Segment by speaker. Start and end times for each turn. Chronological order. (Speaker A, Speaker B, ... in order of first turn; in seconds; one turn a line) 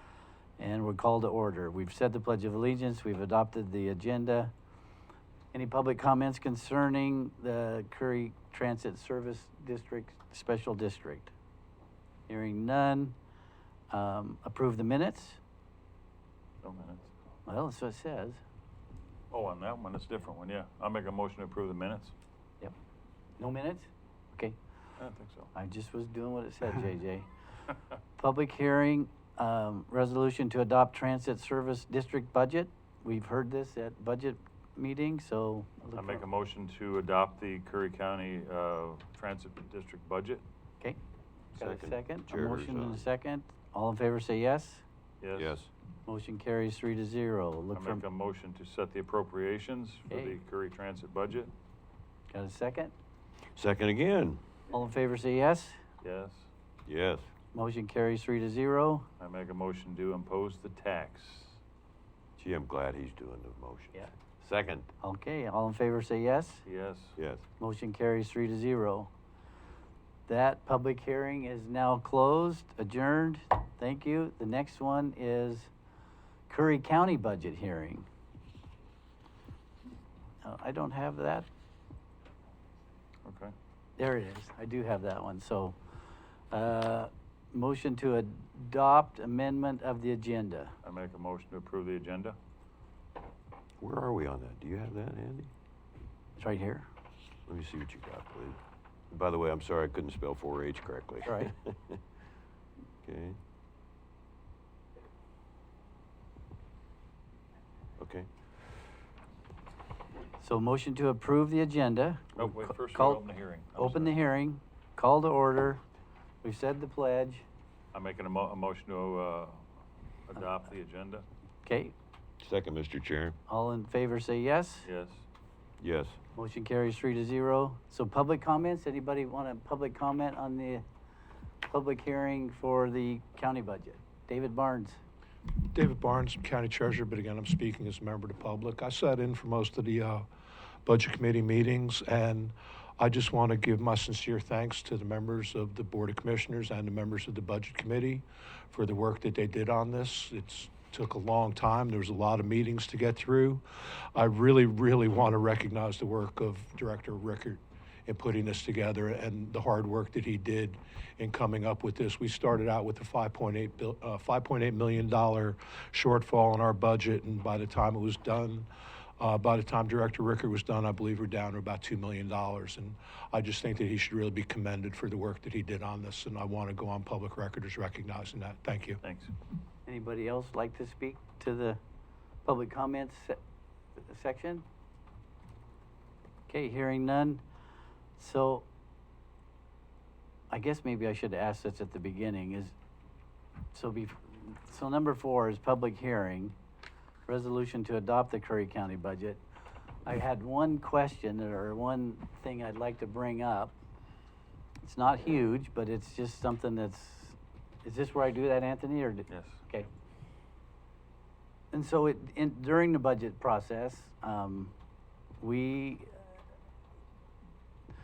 Speaker A: 0.6-4.5
Speaker A: 5.5-11.3
Speaker A: 12.3-13.2
Speaker A: 13.9-15.4
Speaker B: 16.6-17.1
Speaker A: 17.4-18.4
Speaker B: 19.3-22.1
Speaker A: 23.4-24.6
Speaker B: 25.0-25.5
Speaker A: 25.5-27.3
Speaker A: 28.2-36.2
Speaker B: 36.0-40.4
Speaker A: 41.5-44.8
Speaker C: 41.6-43.0
Speaker B: 45.2-45.6
Speaker C: 45.3-45.7
Speaker A: 46.0-48.0
Speaker B: 47.7-51.5
Speaker A: 50.1-50.4
Speaker A: 52.3-52.9
Speaker C: 53.5-54.4
Speaker A: 54.7-55.8
Speaker B: 56.0-56.5
Speaker C: 56.9-57.3
Speaker A: 57.5-59.0
Speaker B: 59.2-61.6
Speaker C: 62.4-64.9
Speaker A: 65.0-66.6
Speaker B: 66.7-67.2
Speaker C: 67.2-67.4
Speaker A: 67.6-69.1
Speaker A: 70.3-75.7
Speaker A: 76.5-78.1
Speaker A: 80.4-81.5
Speaker B: 83.2-83.5
Speaker A: 84.0-85.8
Speaker A: 86.5-90.7
Speaker B: 90.8-92.4
Speaker C: 93.8-95.5
Speaker A: 96.4-96.9
Speaker C: 97.5-98.6
Speaker C: 99.1-102.0
Speaker A: 101.2-101.5
Speaker C: 103.0-103.4
Speaker C: 108.0-108.3
Speaker A: 110.4-113.2
Speaker B: 112.3-114.2
Speaker A: 113.8-115.8
Speaker A: 116.4-117.4
Speaker B: 117.9-119.6
Speaker B: 120.3-121.2
Speaker A: 121.6-121.9
Speaker C: 122.4-123.3
Speaker A: 123.5-124.9
Speaker B: 124.8-125.2
Speaker C: 125.8-126.2
Speaker A: 126.3-130.8
Speaker A: 131.6-135.0
Speaker D: 135.6-140.2
Speaker D: 140.8-153.6
Speaker D: 154.1-168.7
Speaker D: 169.2-179.0
Speaker B: 179.0-179.3
Speaker A: 179.8-181.8
Speaker A: 182.4-183.4
Speaker A: 184.0-184.6
Speaker A: 186.5-187.4
Speaker A: 188.2-188.7
Speaker A: 190.5-192.7
Speaker A: 193.7-196.6
Speaker A: 197.2-199.4
Speaker A: 200.0-203.7
Speaker A: 204.8-209.9
Speaker B: 209.3-209.6
Speaker A: 211.7-214.7
Speaker A: 215.4-216.2